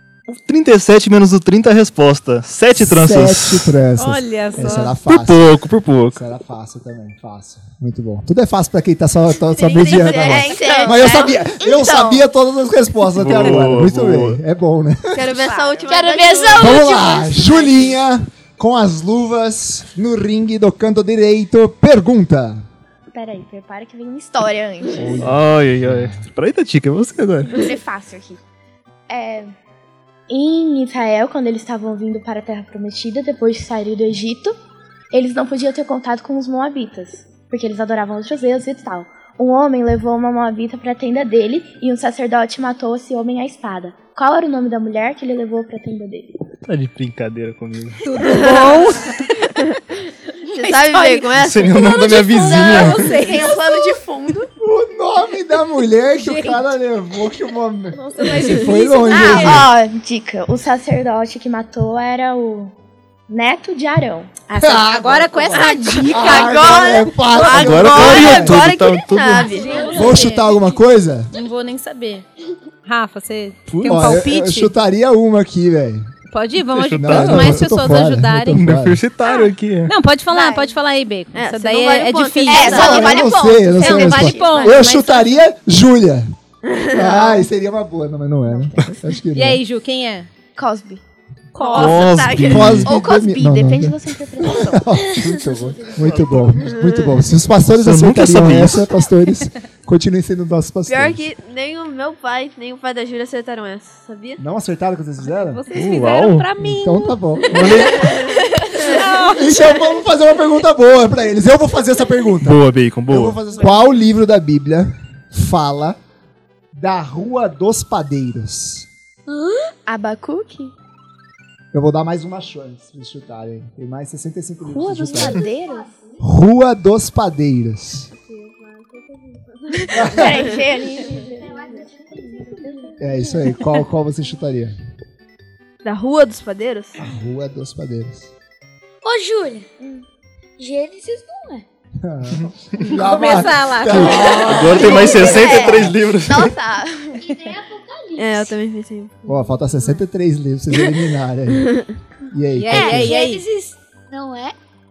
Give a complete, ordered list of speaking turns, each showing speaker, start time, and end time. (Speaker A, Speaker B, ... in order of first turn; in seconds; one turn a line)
Speaker A: 0.3-3.8
Speaker B: 2.8-5.6
Speaker C: 4.0-4.9
Speaker A: 5.1-6.2
Speaker B: 6.1-15.4
Speaker D: 9.5-12.2
Speaker E: 10.0-11.9
Speaker A: 13.2-14.4
Speaker D: 15.1-17.1
Speaker E: 15.3-16.0
Speaker F: 15.9-17.8
Speaker B: 16.6-22.6
Speaker E: 23.1-25.4
Speaker A: 25.0-27.8
Speaker B: 25.8-26.2
Speaker E: 27.5-28.4
Speaker E: 29.1-29.6
Speaker E: 30.3-34.5
Speaker E: 35.1-46.3
Speaker A: 46.6-48.5
Speaker C: 48.0-49.3
Speaker D: 48.2-53.8
Speaker C: 50.4-51.3
Speaker A: 51.3-53.2
Speaker E: 51.9-54.5
Speaker C: 52.5-53.3
Speaker B: 54.6-59.7
Speaker C: 56.2-56.8
Speaker E: 58.0-62.7
Speaker D: 58.4-58.7
Speaker C: 59.1-59.6
Speaker D: 59.2-59.6
Speaker E: 63.3-67.0
Speaker B: 64.6-68.7
Speaker C: 64.8-66.7
Speaker D: 65.8-69.8
Speaker A: 67.5-69.6
Speaker C: 69.4-70.5
Speaker E: 69.5-70.2
Speaker B: 69.8-71.3
Speaker C: 71.3-72.3
Speaker C: 72.8-74.7
Speaker A: 73.7-74.2
Speaker B: 73.8-76.1
Speaker C: 76.3-78.7
Speaker A: 76.8-77.7
Speaker B: 76.9-79.0
Speaker A: 78.5-79.9
Speaker C: 79.9-83.1
Speaker E: 80.3-80.8
Speaker D: 81.3-83.3
Speaker E: 82.5-84.8
Speaker B: 82.7-86.4
Speaker C: 83.8-85.4
Speaker D: 86.6-87.2
Speaker B: 86.9-89.6
Speaker E: 87.1-87.4
Speaker E: 88.5-89.0
Speaker C: 89.3-90.3
Speaker E: 90.6-91.0
Speaker C: 91.5-92.2
Speaker D: 91.6-92.8
Speaker A: 91.7-92.9
Speaker B: 92.5-101.3
Speaker E: 92.8-96.3
Speaker A: 95.9-96.7
Speaker D: 96.6-97.2
Speaker A: 97.7-98.9
Speaker D: 100.9-104.4
Speaker B: 104.4-105.6
Speaker C: 105.3-108.1
Speaker A: 105.7-106.5
Speaker B: 106.6-108.0
Speaker A: 107.5-108.2
Speaker D: 107.7-109.1
Speaker C: 108.7-109.6
Speaker B: 109.3-116.0
Speaker A: 112.4-113.4
Speaker B: 116.7-118.9
Speaker F: 119.3-119.7
Speaker E: 119.9-120.7
Speaker B: 121.7-125.5
Speaker E: 124.6-125.9
Speaker B: 126.2-128.1
Speaker D: 128.1-131.3
Speaker B: 129.9-130.5
Speaker E: 130.0-133.0
Speaker F: 131.6-131.9
Speaker B: 133.0-134.8
Speaker D: 135.8-137.0
Speaker B: 137.0-138.3
Speaker F: 139.0-139.7
Speaker F: 140.6-141.7
Speaker B: 142.0-145.9
Speaker C: 142.9-144.4
Speaker A: 143.9-146.5
Speaker E: 144.2-147.4
Speaker D: 144.7-145.8
Speaker F: 147.2-148.5
Speaker D: 148.2-149.2
Speaker B: 149.2-151.7
Speaker E: 149.3-150.0
Speaker D: 151.6-151.9
Speaker B: 152.3-153.2
Speaker C: 152.6-153.4
Speaker F: 152.7-154.6